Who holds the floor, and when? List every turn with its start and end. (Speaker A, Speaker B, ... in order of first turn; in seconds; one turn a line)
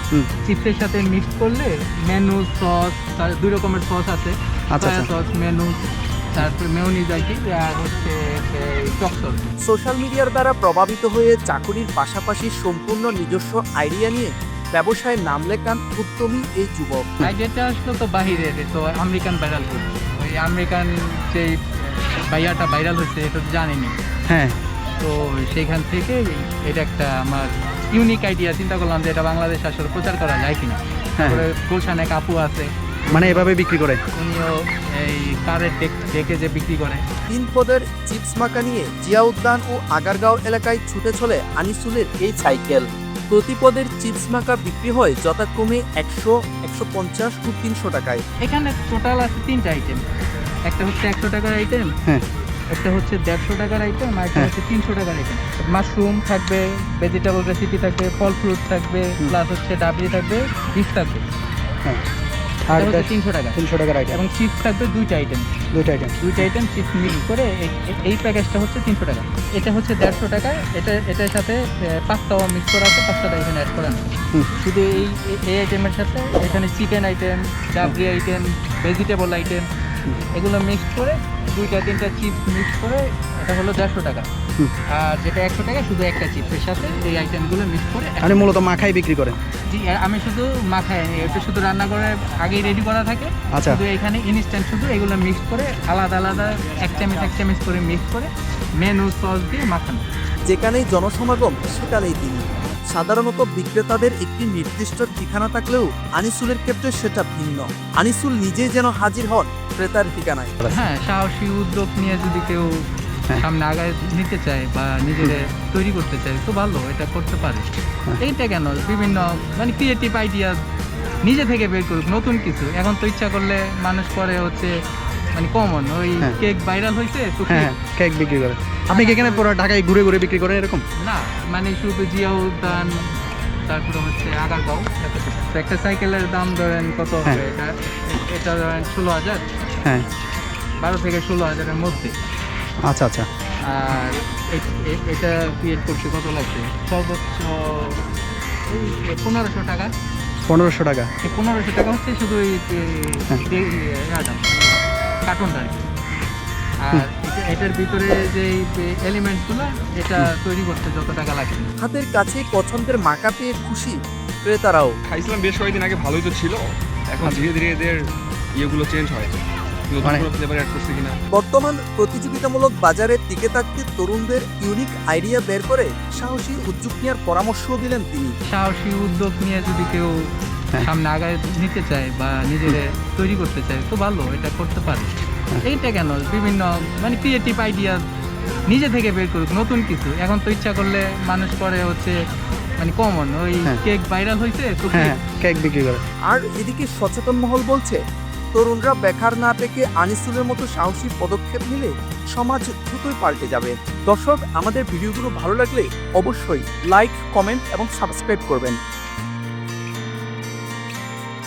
Speaker A: 0.4-5.8
Speaker B: 4.7-5.1
Speaker A: 6.3-9.5
Speaker C: 9.6-17.1
Speaker A: 17.2-24.0
Speaker B: 24.3-24.6
Speaker A: 25.0-33.5
Speaker B: 31.2-31.4
Speaker B: 33.1-34.0
Speaker A: 34.1-37.0
Speaker C: 37.3-48.2
Speaker A: 48.4-50.0
Speaker A: 50.7-51.9
Speaker A: 52.7-61.2
Speaker B: 62.7-64.2
Speaker A: 62.7-65.5
Speaker B: 65.7-66.2
Speaker A: 66.2-74.0
Speaker A: 74.5-79.7
Speaker A: 80.3-84.3
Speaker A: 84.9-88.6
Speaker B: 88.2-89.4
Speaker A: 89.7-100.0
Speaker B: 93.5-93.8
Speaker C: 100.5-110.5
Speaker B: 110.6-110.9
Speaker A: 110.7-117.7
Speaker A: 118.2-120.6
Speaker A: 121.2-124.7
Speaker A: 125.3-127.7
Speaker B: 127.5-130.8
Speaker A: 128.9-129.5
Speaker A: 131.0-133.0
Speaker A: 133.7-139.4
Speaker A: 140.8-142.1
Speaker B: 142.8-143.3
Speaker A: 143.6-148.0
Speaker A: 148.7-149.9
Speaker B: 150.5-151.1
Speaker A: 151.2-154.6
Speaker A: 155.2-155.9
Speaker A: 156.8-161.7
Speaker C: 161.8-164.9
Speaker D: 165.1-168.0
Speaker D: 168.6-169.3
Speaker D: 169.9-171.2
Speaker B: 170.0-170.3
Speaker C: 171.3-178.3
Speaker A: 178.5-185.1
Speaker A: 185.6-188.0
Speaker A: 188.7-192.2
Speaker A: 192.8-195.2
Speaker B: 194.9-196.0
Speaker C: 196.3-198.0
Speaker C: 198.5-208.8